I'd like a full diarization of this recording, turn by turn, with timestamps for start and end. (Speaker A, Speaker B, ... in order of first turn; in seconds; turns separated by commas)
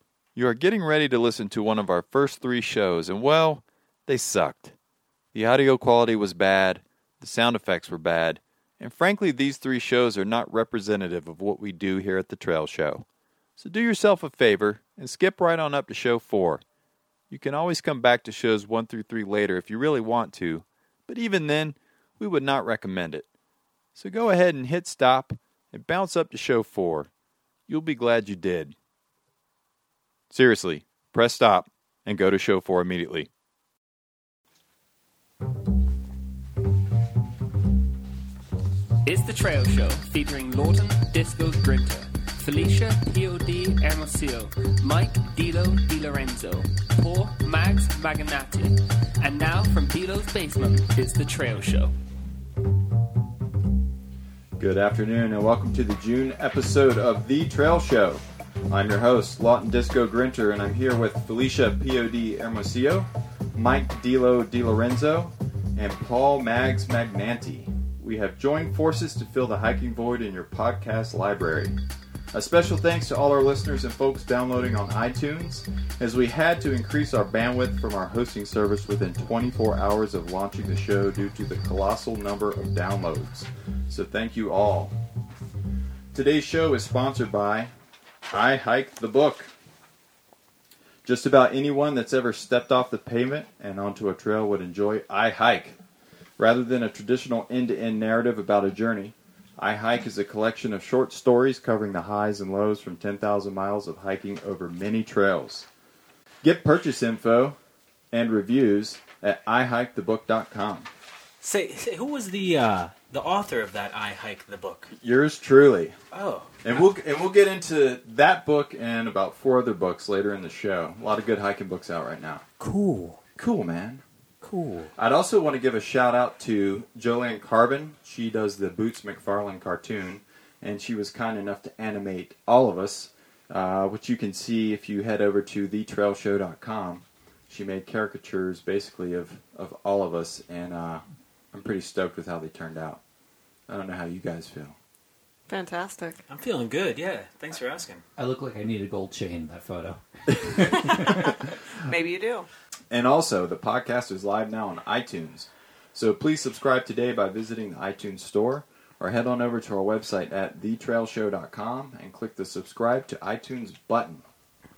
Speaker A: 0.3-4.8, Speaker A: 5.3-13.1, Speaker A: 13.6-16.6, Speaker A: 17.3-23.3, Speaker A: 23.9-27.1, Speaker A: 27.7-28.8, Speaker A: 30.3-33.3, Speaker B: 39.0-51.9, Speaker A: 54.6-71.8, Speaker A: 72.3-84.9, Speaker A: 86.1-87.7, Speaker A: 88.3-89.5, Speaker A: 91.0-95.8, Speaker A: 96.4-105.7, Speaker A: 106.4-107.6, Speaker A: 108.1-110.9, Speaker C: 111.4-114.9, Speaker A: 115.0-116.0, Speaker C: 116.1-116.8, Speaker A: 116.6-122.4, Speaker C: 122.6-123.2, Speaker A: 123.4-124.0, Speaker C: 124.4-124.9, Speaker A: 125.0-143.0, Speaker A: 143.7-144.8, Speaker D: 145.5-146.2, Speaker C: 146.3-148.0, Speaker E: 148.2-151.3, Speaker D: 150.7-152.5, Speaker A: 152.9-164.2